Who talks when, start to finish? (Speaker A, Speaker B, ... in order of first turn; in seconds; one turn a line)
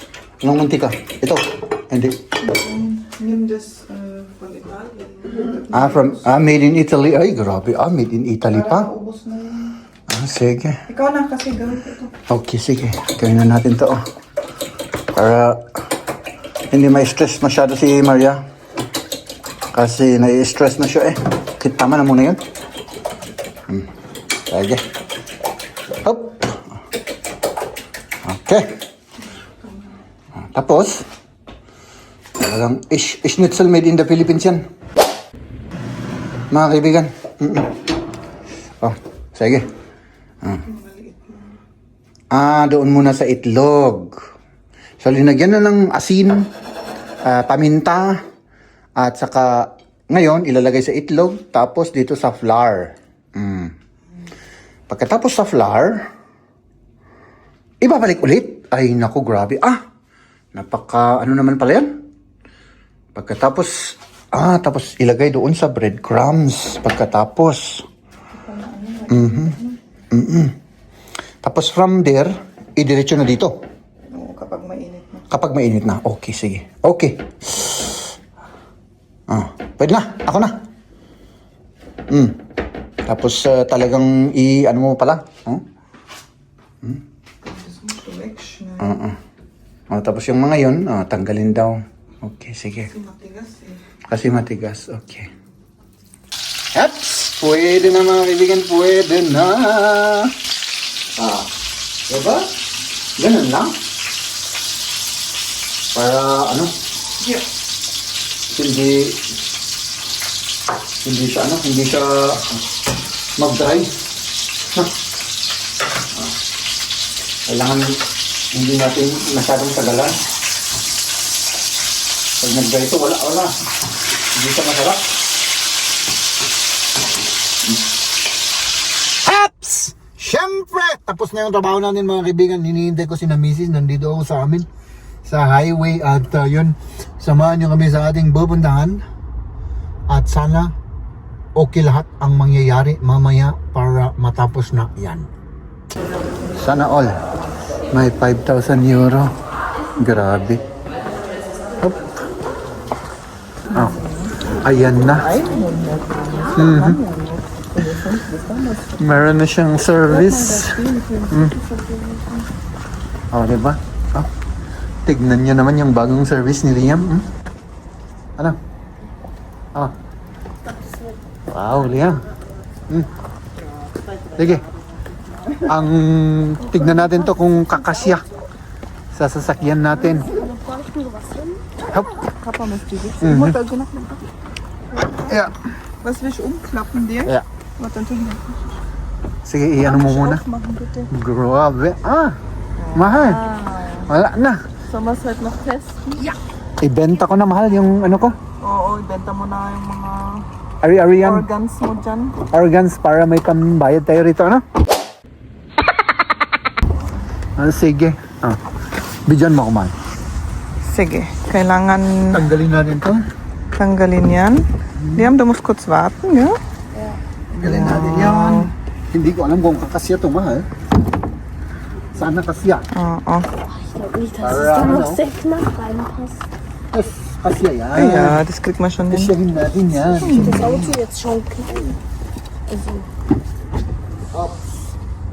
Speaker A: 0.4-2.2
Speaker B: 2.4-6.3
Speaker A: 5.7-8.9
Speaker B: 8.5-9.8
Speaker A: 10.1-10.8
Speaker B: 10.9-12.1
Speaker A: 12.3-14.0
Speaker A: 15.1-15.7
Speaker A: 16.7-18.4
Speaker A: 19.7-22.4
Speaker A: 24.5-24.8
Speaker A: 26.0-26.6
Speaker A: 28.2-28.7
Speaker B: 29.6-30.0
Speaker A: 30.3-31.0
Speaker A: 32.4-34.6
Speaker A: 36.5-37.7
Speaker A: 38.8-39.7
Speaker B: 40.6-41.6
Speaker A: 42.3-44.1
Speaker A: 45.0-46.5
Speaker A: 47.2-48.2
Speaker A: 49.0-53.7
Speaker A: 54.9-56.0
Speaker A: 57.8-59.8
Speaker A: 60.5-62.0
Speaker A: 63.1-67.8
Speaker B: 68.3-69.8
Speaker A: 69.1-69.5
Speaker A: 70.1-70.6
Speaker A: 71.4-73.6
Speaker B: 74.1-75.3
Speaker A: 75.3-78.0
Speaker A: 79.3-80.5
Speaker A: 82.1-82.4
Speaker A: 83.0-85.6
Speaker B: 87.4-89.0
Speaker A: 88.8-89.2
Speaker A: 89.9-92.9
Speaker B: 92.8-93.8
Speaker A: 94.1-95.3
Speaker A: 96.7-100.3
Speaker A: 101.2-101.5
Speaker A: 102.1-102.5
Speaker A: 103.2-103.8
Speaker A: 105.9-106.7
Speaker A: 108.5-109.2
Speaker A: 111.0-112.6
Speaker A: 113.4-113.9
Speaker A: 117.5-120.2
Speaker A: 122.4-123.5
Speaker A: 124.3-125.2
Speaker A: 129.2-134.7
Speaker A: 135.2-139.0
Speaker A: 140.1-140.7
Speaker A: 141.6-145.3
Speaker A: 146.6-147.2
Speaker A: 147.9-149.3
Speaker A: 150.0-150.6
Speaker B: 153.7-154.3
Speaker A: 154.6-155.3
Speaker B: 155.2-159.2
Speaker A: 156.5-157.0
Speaker A: 159.0-160.8
Speaker B: 160.1-162.4
Speaker A: 163.3-164.3
Speaker A: 165.0-167.3
Speaker C: 170.6-171.2
Speaker A: 171.5-172.2
Speaker A: 174.3-174.6
Speaker B: 175.3-175.7
Speaker A: 175.6-178.2
Speaker B: 176.6-177.2
Speaker A: 179.1-180.3
Speaker C: 180.0-181.9
Speaker A: 181.9-182.2
Speaker B: 182.2-184.3
Speaker A: 183.2-183.6
Speaker B: 184.9-185.5
Speaker A: 185.2-185.5
Speaker B: 186.0-188.6
Speaker A: 189.4-190.4
Speaker B: 189.8-191.1
Speaker A: 191.1-192.4
Speaker B: 192.8-194.1
Speaker A: 192.9-193.4
Speaker A: 194.1-194.6
Speaker B: 194.9-196.3
Speaker A: 196.8-198.4
Speaker B: 198.6-200.4
Speaker A: 200.8-201.5
Speaker B: 201.2-202.4
Speaker A: 202.5-204.6
Speaker A: 207.6-208.6
Speaker A: 209.3-209.9
Speaker B: 210.9-212.4
Speaker A: 212.3-213.2
Speaker B: 213.8-214.6
Speaker A: 215.0-215.3
Speaker B: 215.1-216.6
Speaker B: 217.5-218.7
Speaker A: 217.6-220.7
Speaker A: 222.1-222.8
Speaker B: 222.9-223.5
Speaker C: 223.7-226.4
Speaker A: 224.4-225.2
Speaker A: 226.9-228.4
Speaker B: 227.9-229.3
Speaker A: 229.1-231.0
Speaker C: 230.2-232.0
Speaker C: 232.7-233.1
Speaker A: 234.3-234.6